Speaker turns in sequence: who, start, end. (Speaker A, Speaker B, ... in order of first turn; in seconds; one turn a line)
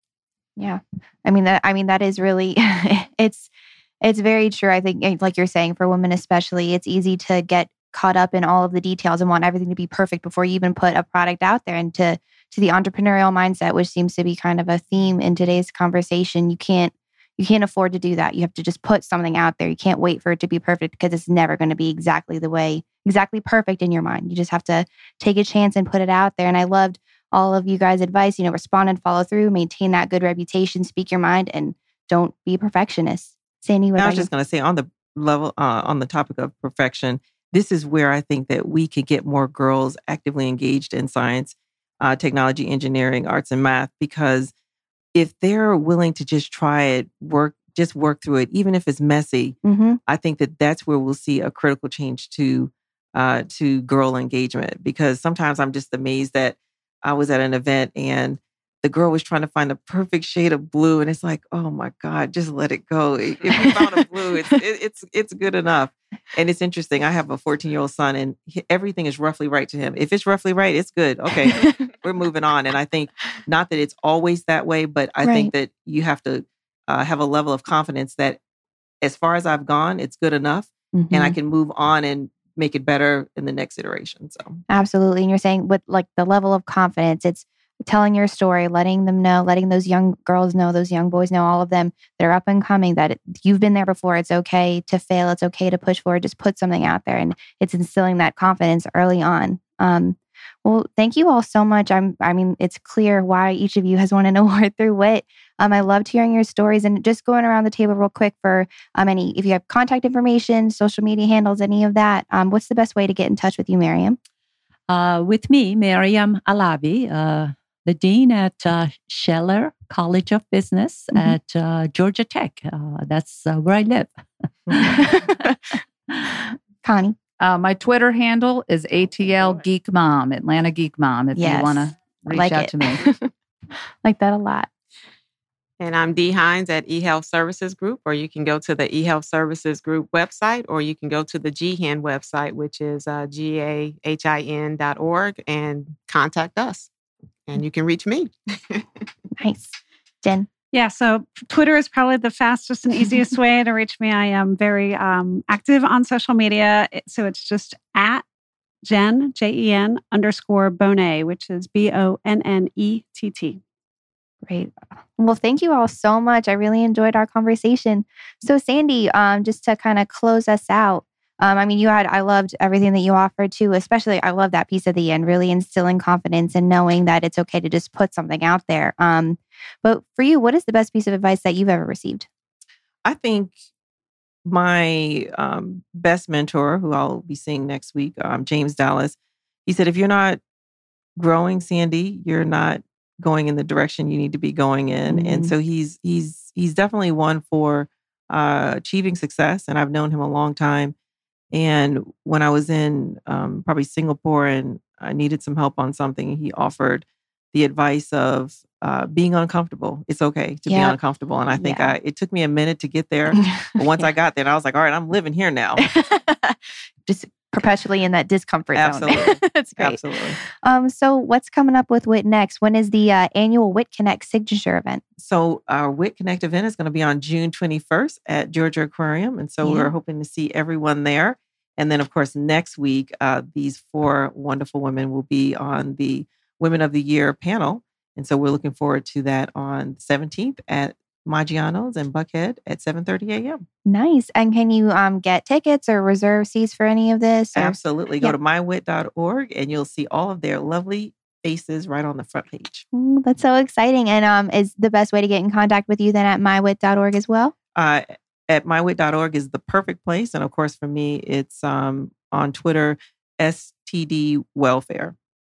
Speaker A: 0.6-34.3
Speaker B: 34.0-44.5
Speaker B: 45.1-78.4
Speaker A: 49.6-50.0
Speaker A: 75.2-75.5
Speaker B: 79.0-84.6
Speaker A: 80.9-81.4
Speaker A: 84.7-114.2
Speaker C: 114.9-124.1
Speaker C: 124.7-125.3
Speaker A: 124.8-125.3
Speaker A: 126.8-127.2
Speaker D: 127.4-133.0
Speaker A: 131.3-133.3
Speaker A: 134.0-134.7
Speaker E: 135.8-146.9
Speaker E: 147.5-148.9
Speaker A: 149.4-150.5
Speaker F: 150.7-158.2
Speaker F: 158.8-163.6
Speaker A: 164.4-182.3
Speaker B: 183.1-183.5
Speaker B: 184.4-190.4
Speaker B: 191.2-200.9
Speaker A: 195.1-195.5
Speaker B: 201.5-215.8
Speaker A: 210.7-210.9
Speaker A: 211.6-212.0
Speaker A: 213.4-214.0
Speaker A: 215.8-220.0
Speaker B: 218.8-220.4
Speaker A: 220.6-225.0
Speaker B: 225.2-243.6
Speaker A: 229.6-229.9
Speaker A: 243.9-248.3
Speaker B: 247.6-252.8
Speaker A: 252.9-257.5
Speaker B: 257.8-265.1